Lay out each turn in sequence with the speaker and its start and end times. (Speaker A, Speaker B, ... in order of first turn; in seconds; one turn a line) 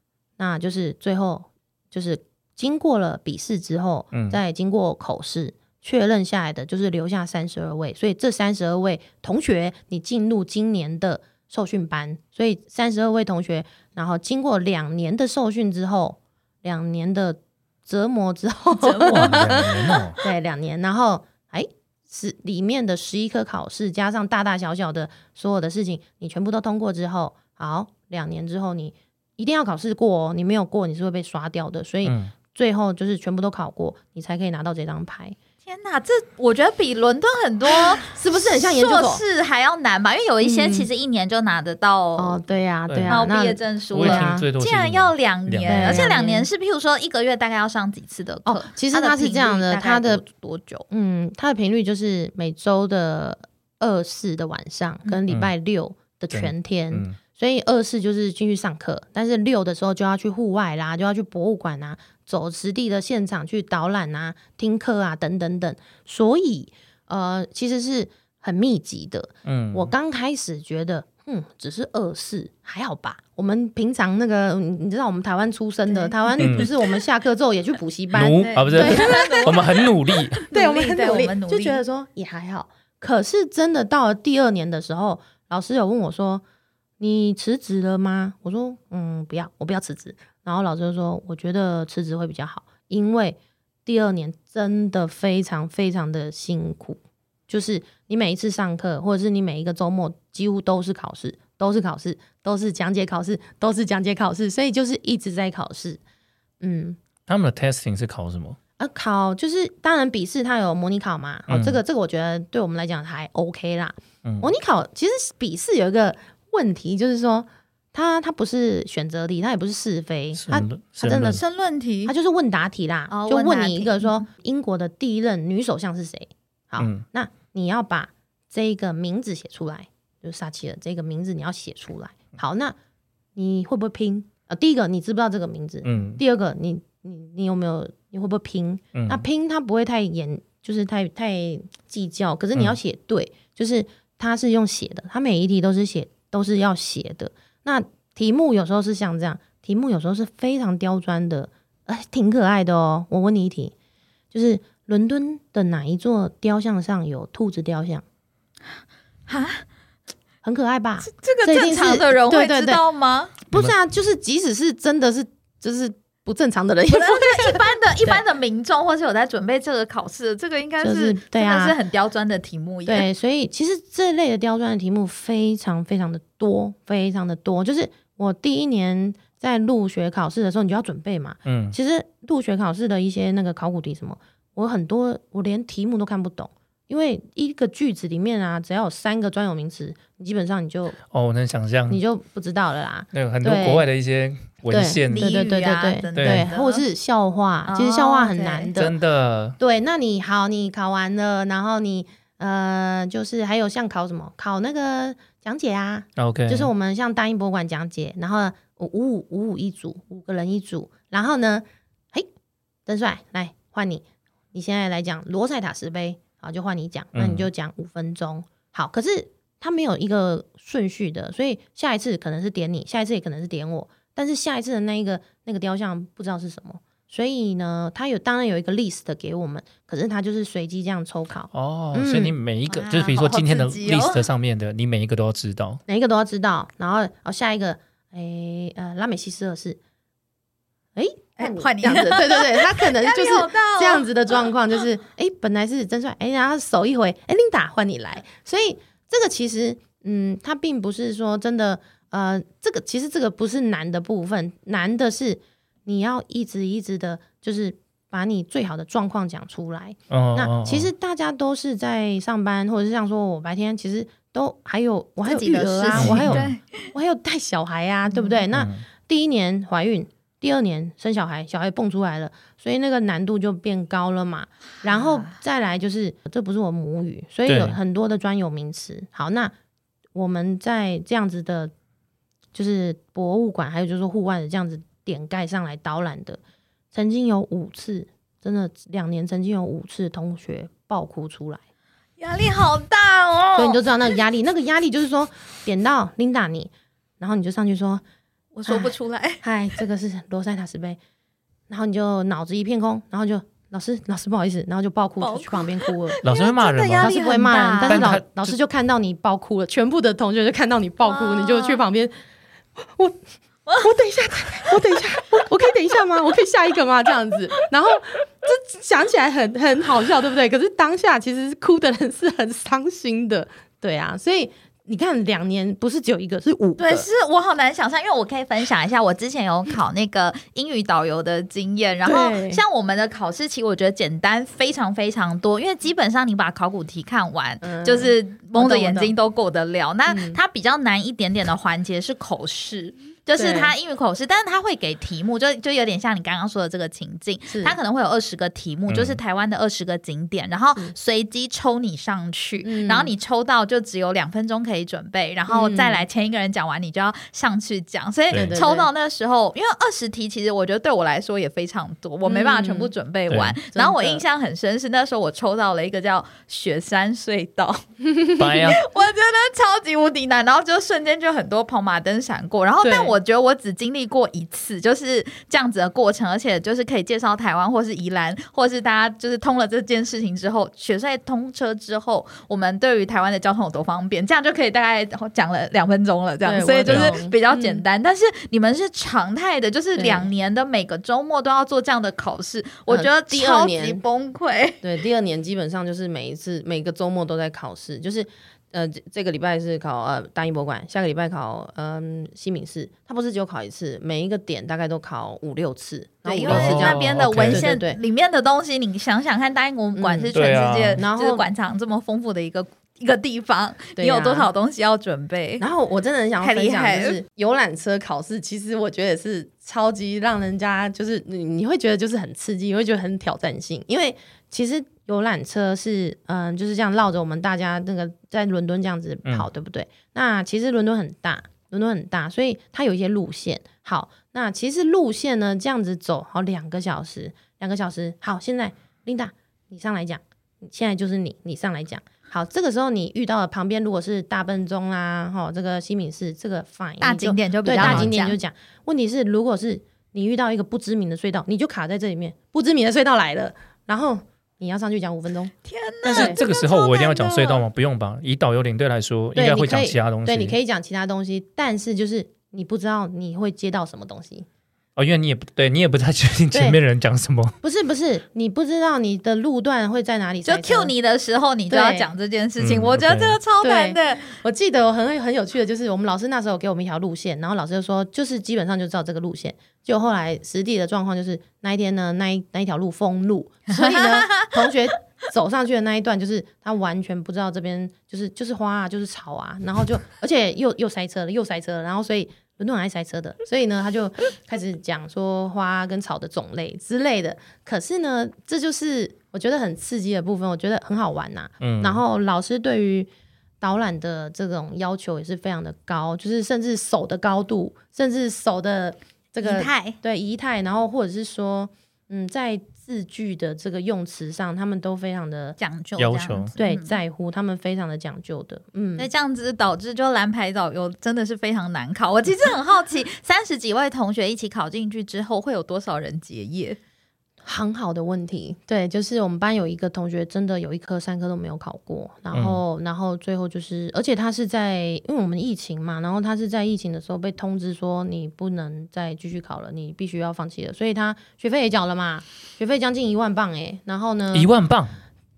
Speaker A: 0.4-35.4
Speaker B: 4.1-4.4
Speaker C: 18.8-20.0
Speaker B: 19.1-20.2
Speaker B: 32.0-32.3
Speaker C: 35.7-42.4
Speaker A: 37.7-39.2
Speaker A: 40.4-40.9
Speaker A: 42.2-44.5
Speaker B: 42.9-43.3
Speaker C: 43.1-50.9
Speaker B: 43.9-46.1
Speaker A: 45.7-46.5
Speaker A: 48.5-50.2
Speaker A: 50.9-79.7
Speaker B: 56.3-57.2
Speaker B: 69.5-69.9
Speaker C: 75.9-76.5
Speaker B: 76.4-76.7
Speaker B: 78.1-80.4
Speaker C: 78.4-79.8
Speaker C: 80.4-81.8
Speaker A: 80.5-86.4
Speaker A: 87.0-106.0
Speaker A: 106.6-107.0
Speaker B: 107.3-108.6
Speaker A: 108.8-121.4
Speaker B: 111.5-111.8
Speaker B: 114.2-114.5
Speaker B: 120.3-121.4
Speaker C: 121.2-122.1
Speaker A: 122.1-132.8
Speaker C: 123.1-124.2
Speaker B: 126.8-127.0
Speaker A: 133.3-153.7
Speaker B: 135.8-136.2
Speaker B: 138.9-139.2
Speaker A: 154.3-158.0
Speaker C: 159.3-159.6
Speaker A: 160.4-162.8
Speaker C: 161.0-163.3
Speaker A: 163.4-168.2
Speaker C: 166.9-173.1
Speaker A: 170.8-171.8
Speaker A: 172.9-191.0
Speaker B: 181.5-181.8
Speaker B: 191.1-192.0
Speaker A: 191.9-193.8
Speaker B: 193.1-195.5
Speaker A: 194.7-198.9
Speaker C: 195.1-196.8
Speaker B: 196.2-196.5
Speaker C: 197.7-198.7
Speaker B: 198.8-199.6
Speaker A: 199.6-212.3
Speaker B: 206.2-206.7
Speaker A: 212.9-232.3
Speaker B: 217.1-217.5
Speaker B: 231.5-235.8
Speaker C: 232.7-234.2
Speaker A: 235.9-239.8
Speaker A: 240.9-279.5
Speaker C: 241.4-244.1
Speaker B: 260.1-260.9
Speaker C: 265.2-266.8
Speaker B: 265.9-266.5
Speaker C: 268.1-268.4
Speaker B: 268.5-268.9
Speaker C: 274.9-275.3
Speaker B: 277.5-277.8
Speaker A: 280.1-281.7
Speaker A: 282.5-286.4
Speaker A: 286.9-291.6
Speaker C: 292.2-293.8
Speaker A: 293.6-298.0
Speaker C: 298.5-299.4
Speaker A: 298.7-301.0
Speaker A: 301.7-306.2
Speaker C: 305.2-308.1
Speaker B: 306.2-307.2
Speaker A: 307.0-312.1
Speaker B: 307.9-308.6
Speaker C: 311.1-311.8
Speaker A: 312.8-313.2
Speaker A: 313.7-327.1
Speaker C: 326.8-367.8
Speaker A: 332.1-332.6
Speaker A: 337.6-339.1
Speaker A: 340.1-340.4
Speaker A: 343.4-343.7
Speaker A: 347.5-347.8
Speaker B: 348.9-349.2
Speaker A: 352.6-353.1
Speaker A: 355.5-356.0
Speaker B: 358.3-358.6
Speaker A: 358.3-358.9
Speaker A: 362.3-362.9
Speaker B: 363.3-363.6
Speaker A: 363.7-364.2
Speaker A: 368.1-368.4
Speaker B: 368.4-368.8
Speaker C: 368.4-394.8
Speaker A: 372.8-373.1
Speaker A: 386.4-387.8
Speaker B: 386.9-387.2
Speaker A: 390.0-390.3
Speaker A: 392.9-394.0
Speaker A: 394.8-408.0
Speaker C: 406.2-415.6
Speaker B: 406.5-407.7
Speaker A: 409.9-410.3
Speaker B: 410.3-411.0
Speaker A: 411.0-411.4
Speaker A: 414.0-414.5
Speaker A: 415.6-455.5
Speaker C: 416.4-417.2
Speaker C: 447.0-448.4
Speaker B: 447.8-448.1
Speaker C: 455.6-457.6
Speaker B: 456.0-460.6
Speaker A: 456.1-456.4
Speaker A: 459.4-464.5
Speaker B: 465.0-467.6
Speaker A: 466.5-466.8
Speaker A: 467.6-470.9
Speaker C: 470.4-474.3
Speaker A: 471.7-472.1
Speaker B: 472.6-473.4
Speaker A: 473.6-503.1
Speaker C: 483.8-484.5
Speaker B: 501.6-502.0
Speaker A: 503.6-515.6
Speaker C: 509.4-510.0
Speaker C: 515.6-517.0
Speaker B: 516.0-516.5
Speaker A: 516.6-519.1
Speaker C: 519.0-526.8
Speaker A: 527.4-544.5
Speaker B: 532.3-532.6
Speaker B: 544.3-544.9